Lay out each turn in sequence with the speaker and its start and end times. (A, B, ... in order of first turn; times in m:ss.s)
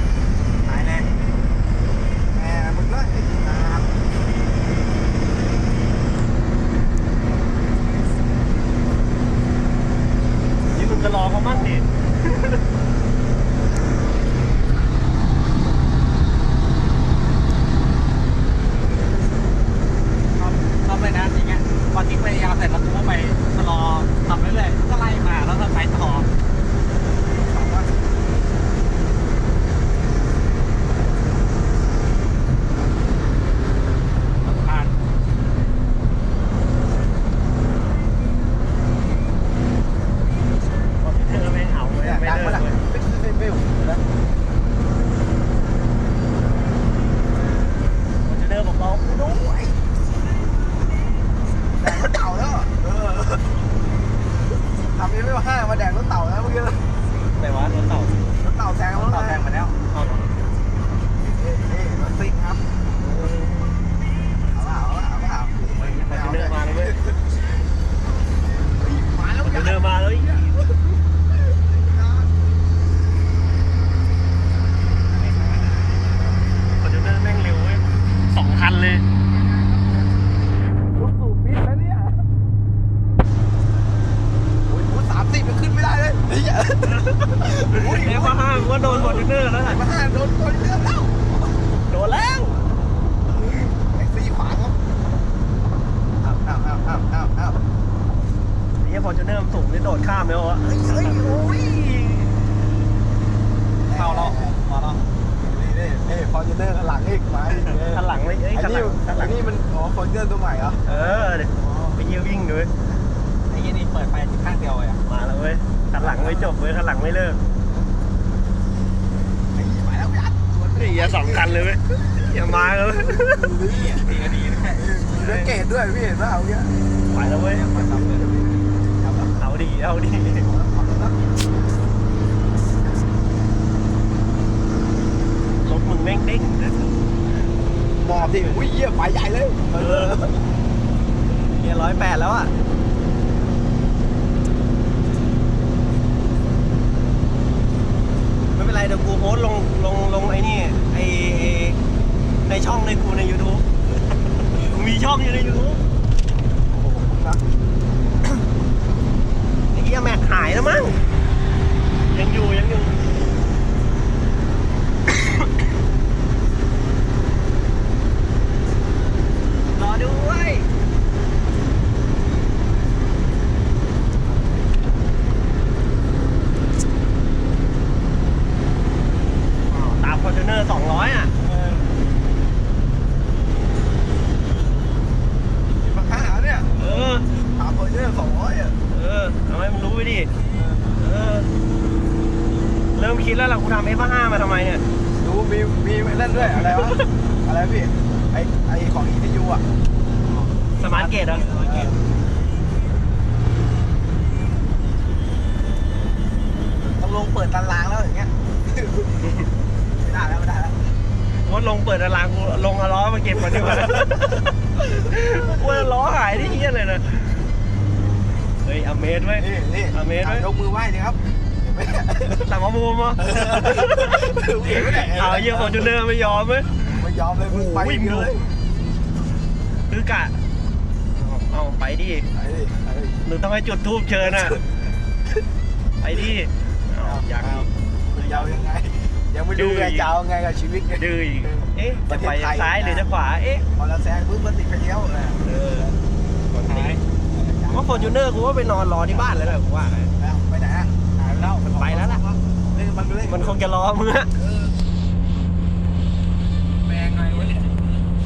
0:00.7-0:01.1 A
0:02.3-0:04.0 B
0:10.7-0:12.6 C
0:20.3-0:26.3 A
0:27.3-0:28.1 B
0:34.4-0:35.0 A
0:41.0-0:42.8 C
0:42.0-0:44.0 B
0:48.2-0:49.7 C
0:51.8-0:53.5 B
0:54.9-0:56.8 B
0:57.3-0:58.2 C
0:58.4-0:59.7 B
0:58.9-1:00.2 C
1:01.3-1:02.6 B
1:03.0-1:03.9 C
1:04.5-1:07.2 B
1:05.8-1:06.9 C
1:08.8-1:10.8 B
1:09.4-1:10.4 C
1:11.5-1:12.4 B
1:16.7-1:19.0 C
1:19.5-1:20.1 B
1:20.9-1:22.2 B
1:24.7-1:31.6 B
1:26.9-1:29.8 C
1:31.9-1:32.6 C
1:33.4-1:34.8 B
1:36.4-1:37.6 B
1:38.8-1:42.5 C
1:40.7-1:41.8 B
1:43.9-1:44.6 B
1:44.0-1:45.0 A
1:45.4-1:50.8 B
1:47.7-1:49.3 C
1:50.8-1:52.7 C
1:53.5-1:54.9 A
1:55.0-1:57.4 C
1:56.0-1:56.5 B
1:59.5-2:01.8 B
2:00.8-2:03.7 C
2:03.2-2:04.1 B
2:04.1-2:04.8 A
2:04.8-2:09.3 B
2:05.1-2:05.5 C
2:07.1-2:07.7 C
2:07.8-2:08.2 A
2:09.4-2:10.5 C
2:10.4-2:11.3 B
2:15.6-2:17.0 C
2:18.0-2:20.4 B
2:19.7-2:20.3 C
2:21.4-2:22.5 C
2:28.5-2:31.8 C
2:32.5-2:33.6 C
2:34.5-2:35.8 C
2:36.7-2:37.5 B
2:39.7-2:41.0 C
2:42.1-2:43.0 C
2:49.7-2:50.7 C
2:59.7-3:01.3 C
3:01.4-3:01.9 B
3:05.7-3:08.8 B
3:06.8-3:07.3 C
3:08.9-3:10.3 C
3:10.5-3:11.0 B
3:11.0-3:11.5 C
3:12.9-3:14.8 C
3:15.2-3:19.6 B
3:16.6-3:16.9 C
3:20.2-3:21.9 A
3:20.8-3:21.6 C
3:21.3-3:21.9 B
3:26.8-3:29.1 B
3:30.0-3:30.9 B
3:31.4-3:34.3 C
3:34.8-3:37.5 C
3:38.6-3:40.5 C
3:39.4-3:42.4 B
3:42.3-3:44.1 C
3:43.2-3:48.5 B
3:44.7-3:46.7 C
3:47.4-3:48.3 C
3:49.9-3:50.4 C
3:51.2-3:52.3 C
3:52.3-3:53.2 B
3:53.2-3:54.6 C
3:56.0-3:58.5 C
3:57.0-4:03.1 B
3:59.5-4:00.1 C
4:01.0-4:03.7 C
4:03.8-4:06.0 B
4:05.4-4:05.9 C
4:06.5-4:07.0 C
4:06.7-4:07.0 A
4:07.3-4:08.2 B
4:07.7-4:10.1 C
4:10.2-4:11.0 B
4:11.6-4:12.2 C
4:11.8-4:13.6 B
4:13.2-4:14.3 C
4:14.4-4:14.7 B
4:16.8-4:17.6 B